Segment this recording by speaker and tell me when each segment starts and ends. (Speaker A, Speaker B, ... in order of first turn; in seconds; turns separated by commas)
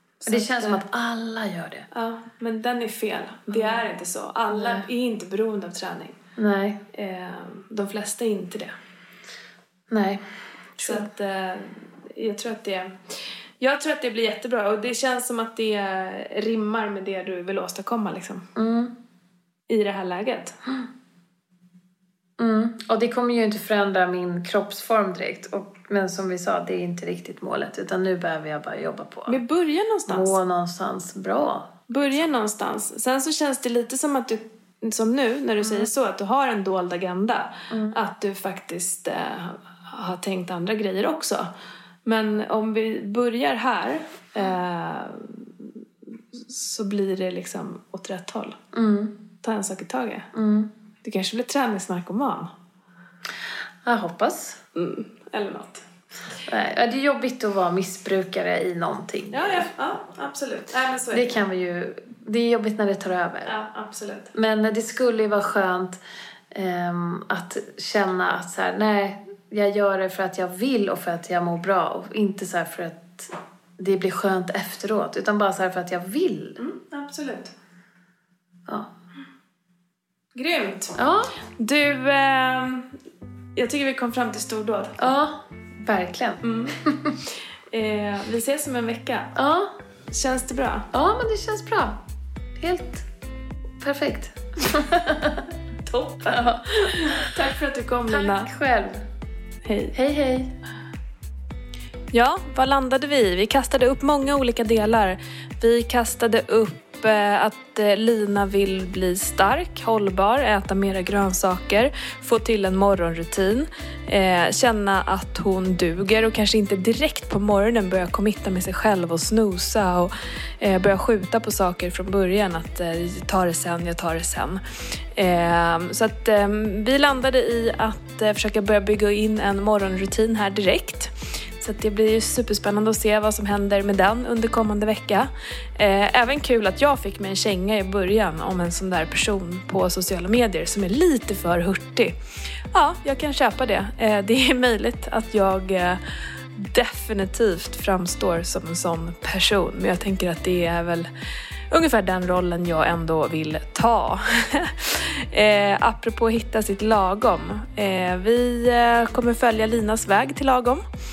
Speaker A: 0.2-0.8, Speaker B: 0.3-1.9, Speaker A: 1.9-6.2, Speaker B: 3.5-3.8, Speaker B: 4.5-4.9, Speaker B: 6.4-6.8, Speaker A: 6.9-8.7, Speaker B: 9.9-10.2, Speaker A: 10.8-13.0, Speaker B: 10.8-11.0, Speaker A: 13.6-18.5, Speaker B: 18.6-18.9, Speaker A: 19.7-20.6, Speaker B: 22.4-29.4, Speaker A: 29.3-30.4, Speaker B: 30.1-32.3, Speaker A: 31.9-41.5, Speaker B: 35.6-35.9, Speaker B: 37.7-38.0, Speaker A: 42.0-48.6, Speaker B: 48.7-49.2, Speaker A: 49.4-50.3, Speaker B: 50.3-50.7, Speaker A: 51.0-52.5, Speaker B: 53.9-54.6, Speaker A: 54.8-55.9, Speaker B: 56.5-59.7, Speaker A: 59.3-61.4, Speaker B: 61.1-63.5, Speaker A: 63.5-64.3, Speaker B: 64.3-66.0, Speaker B: 66.5-76.6, Speaker A: 76.6-77.5, Speaker A: 80.3-80.9, Speaker B: 81.0-81.3, Speaker A: 81.6-83.0, Speaker A: 83.6-85.1, Speaker B: 85.0-87.2, Speaker A: 86.4-89.3, Speaker B: 89.3-89.8, Speaker A: 90.1-90.9, Speaker B: 90.9-92.0, Speaker B: 92.6-93.1, Speaker B: 93.8-95.5, Speaker A: 95.8-98.5, Speaker B: 96.3-97.3, Speaker B: 98.1-99.0, Speaker A: 99.6-100.0, Speaker B: 99.9-100.6, Speaker A: 102.1-142.2, Speaker A: 142.7-146.0, Speaker A: 146.6-151.1, Speaker A: 151.7-160.8